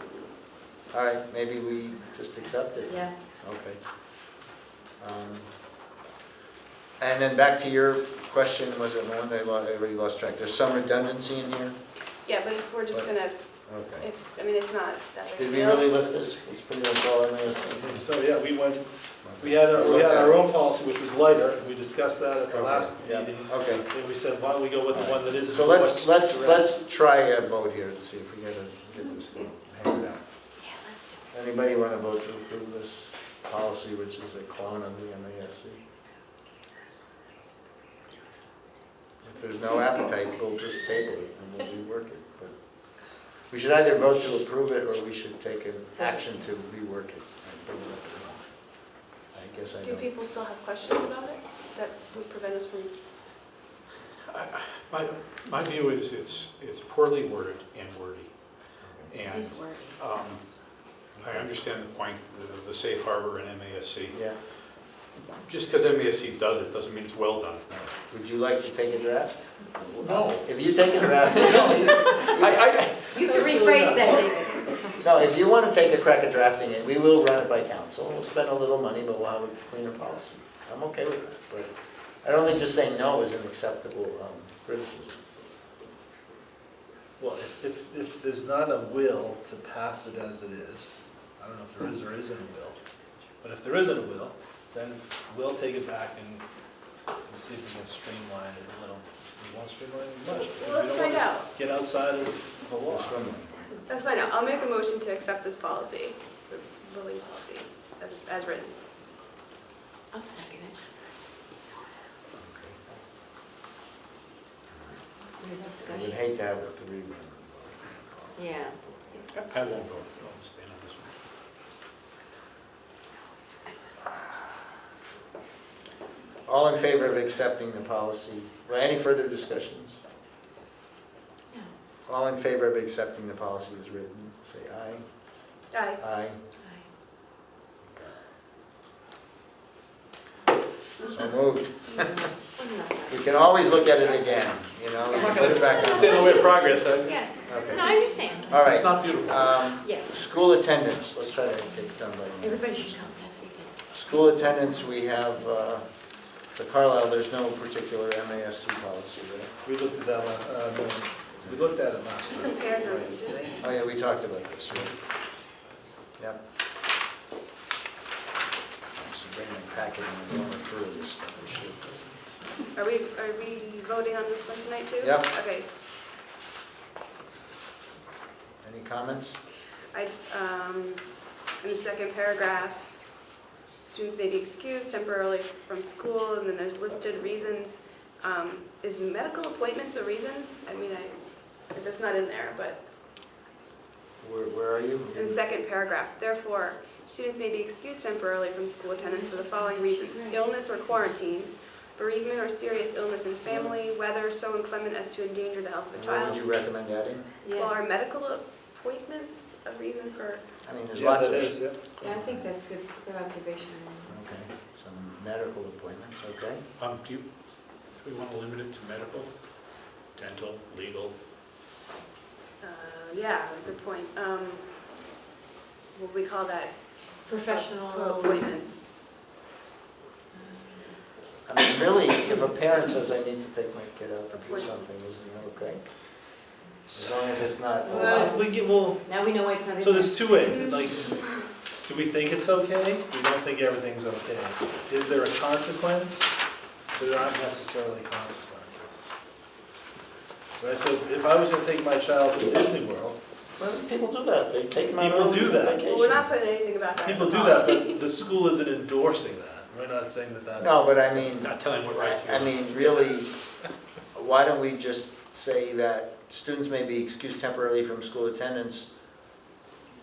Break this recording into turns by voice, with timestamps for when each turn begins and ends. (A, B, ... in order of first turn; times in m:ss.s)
0:00.9-0:03.8 A
0:02.9-0:03.1 B
0:05.0-0:05.5 A
0:07.0-0:11.8 A
0:12.2-0:13.4 C
0:13.7-0:14.1 A
0:14.0-0:15.9 C
0:15.4-0:18.0 A
0:17.7-0:18.9 D
0:19.2-0:20.4 A
0:19.4-0:26.7 D
0:22.5-0:23.9 A
0:24.9-0:30.2 A
0:30.6-0:31.2 B
0:31.3-0:35.8 A
0:39.2-0:42.6 A
0:43.5-0:48.4 A
0:49.3-0:50.1 A
0:49.8-0:53.0 C
0:54.3-0:58.3 E
0:58.8-0:59.1 A
0:59.1-1:00.4 E
0:59.3-1:00.0 B
1:01.2-1:01.5 A
1:01.2-1:04.2 E
1:04.1-1:04.4 A
1:05.4-1:07.9 E
1:08.1-1:09.4 A
1:09.8-1:10.5 E
1:10.1-1:12.7 A
1:11.4-1:13.6 E
1:13.1-1:14.8 B
1:13.3-1:14.0 D
1:15.0-1:21.7 A
1:22.2-1:25.2 A
1:27.2-1:32.8 D
1:33.4-1:36.4 D
1:37.3-1:43.2 D
1:40.3-1:41.5 C
1:42.9-1:43.7 A
1:43.9-1:48.8 C
1:50.1-1:51.0 B
1:52.4-1:53.0 A
1:54.7-1:55.0 A
1:55.4-1:56.2 B
1:55.8-1:59.9 A
1:58.4-1:58.8 B
1:59.5-2:01.1 E
2:06.5-2:10.0 A
2:12.1-2:15.0 A
2:15.7-2:16.0 C
2:16.0-2:16.4 A
2:17.9-2:18.1 A
2:21.1-2:22.2 A
2:21.9-2:23.5 B
2:23.1-2:26.5 A
2:25.1-2:28.6 B
2:25.2-2:27.2 E
2:27.4-2:28.0 A
2:28.5-2:33.1 A
2:28.5-2:29.6 E
2:29.8-2:30.2 B
2:32.4-2:34.4 B
2:33.9-2:35.9 A
2:36.5-2:39.5 A
2:39.6-2:42.6 D
2:42.3-2:43.6 C
2:42.8-2:45.0 A
2:48.9-2:52.1 A
2:52.7-2:55.7 C
2:55.0-2:55.3 A
2:58.6-2:59.4 A
2:59.9-3:03.0 C
3:03.8-3:11.2 C
3:11.7-3:12.8 C
3:14.2-3:15.4 A
3:15.1-3:26.5 C
3:19.0-3:20.4 B
3:23.5-3:23.8 D
3:26.0-3:27.3 A
3:27.4-3:27.8 B
3:27.5-3:30.5 C
3:30.6-3:32.5 A
3:30.9-3:31.8 D
3:32.0-3:34.2 B
3:34.1-3:36.6 A
3:36.8-3:37.3 E
3:38.0-3:39.3 E
3:40.2-3:41.2 E
3:42.6-3:44.7 C
3:45.9-3:48.8 C
3:47.3-3:48.4 B
3:51.5-3:56.3 A
3:54.3-3:54.7 C
3:56.9-3:58.4 A
3:57.8-3:58.5 B
3:57.9-4:01.2 D
3:59.0-4:00.3 B
4:00.4-4:01.4 C
4:01.8-4:06.3 D
4:06.9-4:09.1 D
4:10.6-4:13.2 D
4:13.6-4:16.3 A
4:15.0-4:15.8 D
4:15.8-4:18.1 C
4:17.0-4:21.4 D
4:20.6-4:23.3 A
4:21.4-4:23.0 E
4:24.1-4:28.9 A